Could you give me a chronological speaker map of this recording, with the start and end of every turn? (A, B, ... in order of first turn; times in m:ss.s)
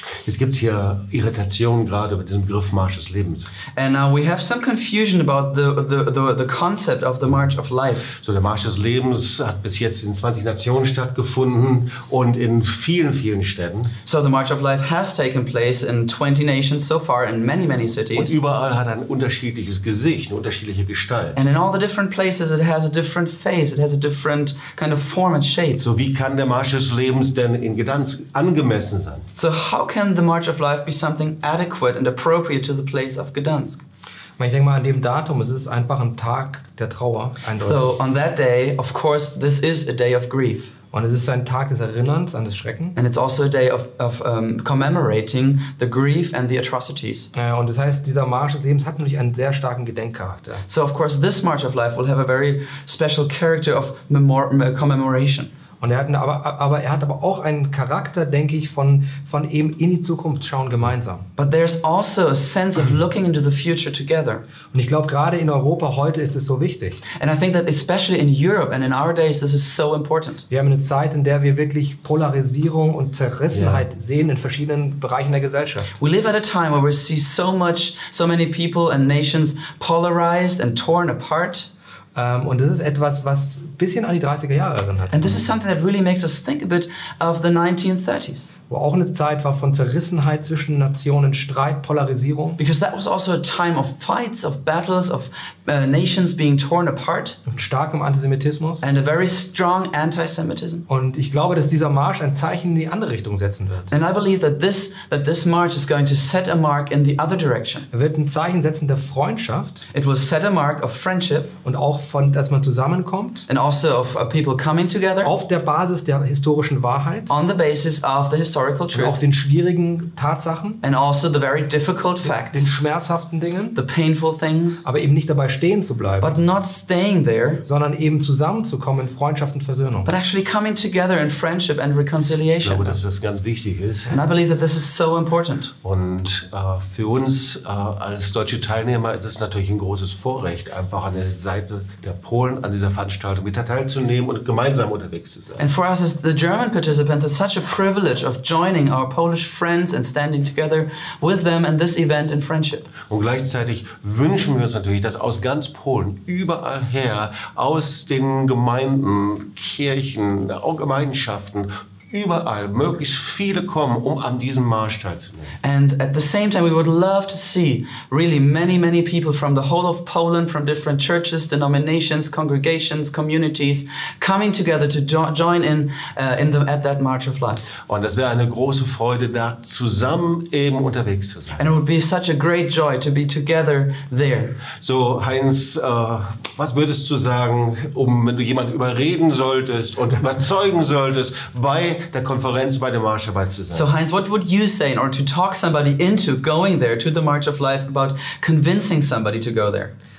0:00.2-0:03.5 A
0:03.7-0:08.1 B
0:08.2-0:13.9 A
0:14.0-0:18.3 B
0:18.2-0:21.4 A
0:21.4-0:25.8 B
0:25.8-0:29.2 A
0:29.3-0:33.8 B
0:34.4-0:38.0 C
0:37.6-0:40.7 B
0:40.9-0:43.0 C
0:43.0-0:47.3 B
0:47.3-0:50.7 C
0:50.7-0:55.5 B
0:55.8-1:01.3 C
1:01.4-1:04.4 B
1:04.7-1:07.0 C
1:07.2-1:10.4 B
1:10.5-1:15.9 C
1:13.5-1:13.9 A
1:16.0-1:21.7 B
1:22.1-1:25.5 C
1:25.1-1:28.5 B
1:28.7-1:32.6 C
1:32.6-1:37.4 B
1:37.4-1:38.8 C
1:38.8-1:40.8 B
1:40.9-1:43.9 C
1:43.9-1:47.9 B
1:47.9-1:49.8 C
1:49.9-1:51.5 B
1:51.6-1:53.5 C
1:53.5-1:55.3 B
1:55.2-1:57.3 C
1:57.3-1:59.2 B
1:58.9-2:00.8 C
2:00.8-2:02.7 B
2:02.2-2:03.8 C
2:03.7-2:04.8 B
2:04.8-2:06.4 C
2:06.2-2:07.6 B
2:07.6-2:10.1 C
2:10.0-2:13.0 B
2:12.6-2:14.2 A
2:14.1-2:15.7 B
2:15.8-2:25.6 A
2:25.6-2:32.9 B
2:33.1-2:45.5 A
2:45.6-2:57.6 B
2:57.9-3:01.6 A
3:01.6-3:04.6 B
3:04.8-3:13.9 A
3:13.7-3:19.9 B